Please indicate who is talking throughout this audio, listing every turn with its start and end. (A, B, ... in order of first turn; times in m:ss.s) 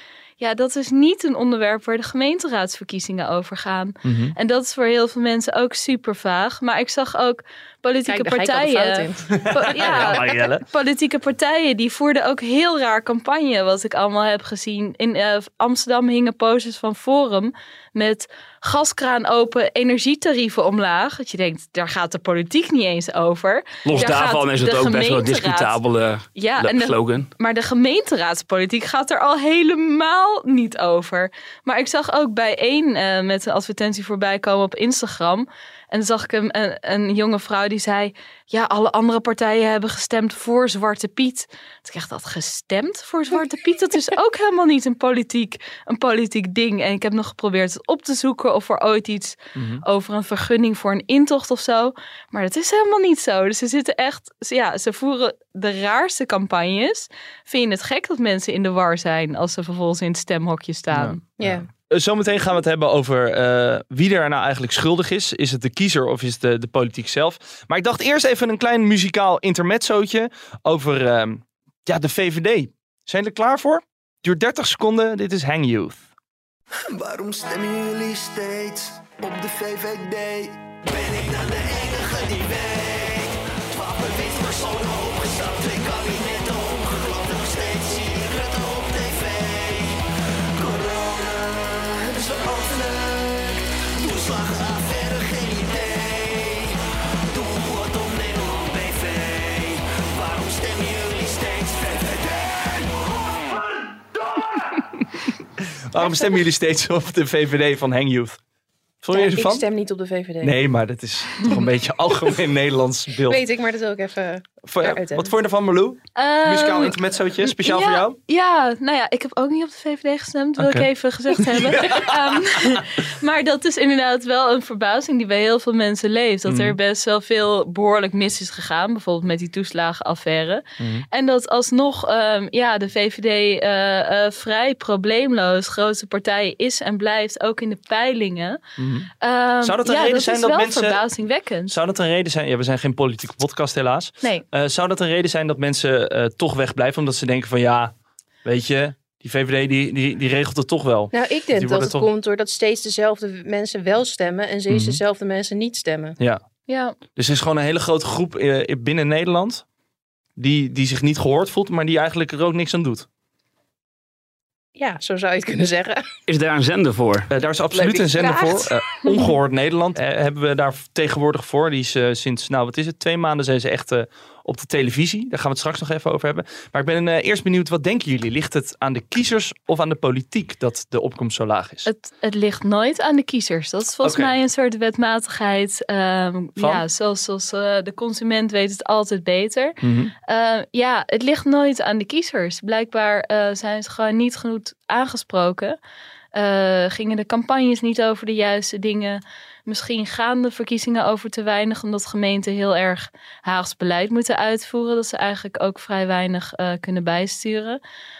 0:00.4-0:25.8 A
0:04.0-0:04.4 B
0:08.1-0:10.4 C
0:09.3-0:10.6 B
0:23.8-0:27.3 D
0:26.4-1:01.2 A
0:49.6-0:49.8 B
1:00.9-1:16.1 B
1:01.4-1:01.7 C
1:16.8-1:30.0 E
1:30.6-1:36.8 E
1:37.3-1:43.6 E
1:44.4-1:44.8 E
1:45.9-1:48.4 B
1:49.0-1:49.6 B
1:49.1-1:50.6 C
1:50.4-1:53.4 B
1:53.2-1:55.3 C
1:54.6-1:58.2 B
1:56.2-2:18.6 A
2:00.6-2:02.8 B
2:06.5-2:06.8 B
2:10.8-2:11.1 B
2:18.8-2:19.1 B
2:19.2-2:21.8 A
2:19.6-2:21.0 B
2:21.7-2:32.1 B
2:31.1-2:36.2 C
2:34.7-2:35.0 B
2:36.7-2:37.0 A
2:37.2-2:39.6 B
2:40.4-2:43.1 B
2:44.8-2:46.1 C
2:46.3-2:47.3 D
2:47.3-3:01.9 B
2:47.7-2:48.8 C
3:01.9-3:15.8 A
3:04.0-3:04.3 B
3:06.6-3:06.8 B
3:09.8-3:10.1 B
3:16.3-3:27.8 A